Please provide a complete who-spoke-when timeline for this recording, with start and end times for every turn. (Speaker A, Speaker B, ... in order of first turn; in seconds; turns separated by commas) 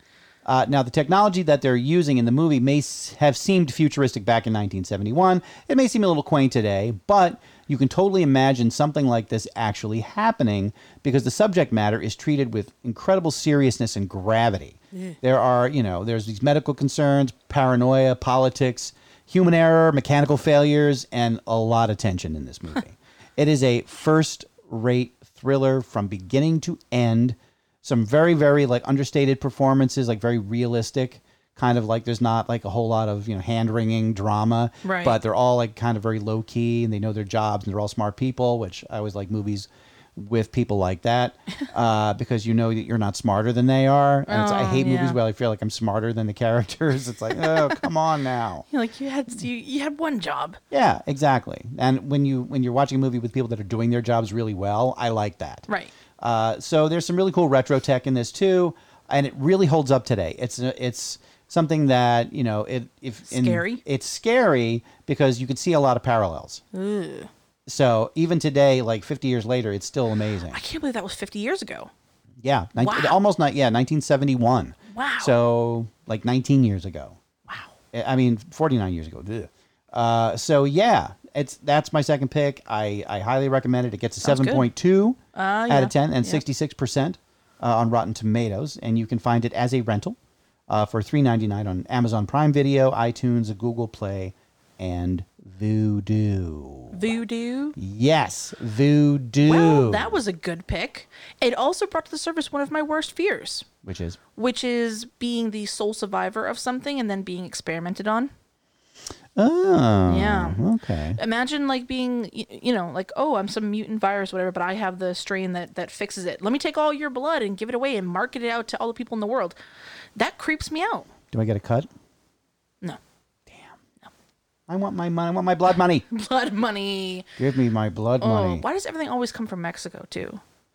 Speaker A: 0.4-48.6, Speaker B: 34.8-35.2, Speaker B: 44.3-45.2, Speaker B: 47.4-47.8, Speaker B: 48.7-50.6, Speaker A: 50.7-55.7, Speaker A: 56.2-66.6, Speaker B: 63.2-63.8, Speaker B: 66.7-67.3, Speaker A: 67.7-70.6, Speaker B: 70.5-71.9, Speaker A: 72.4-77.2, Speaker B: 72.8-73.2, Speaker B: 74.9-75.3, Speaker B: 77.5-77.7, Speaker A: 77.9-90.2, Speaker B: 84.2-84.7, Speaker B: 85.3-86.4, Speaker A: 90.7-97.2, Speaker B: 96.9-97.8, Speaker A: 97.8-100.2, Speaker B: 99.4-103.7, Speaker A: 103.8-104.2, Speaker B: 104.3-108.3, Speaker A: 109.3-111.2, Speaker B: 110.1-110.6, Speaker B: 111.2-119.6, Speaker B: 120.2-121.1, Speaker A: 121.3-121.9, Speaker A: 123.5-123.8, Speaker A: 124.7-126.1, Speaker B: 126.1-127.3, Speaker A: 127.4-128.6, Speaker B: 128.2-130.4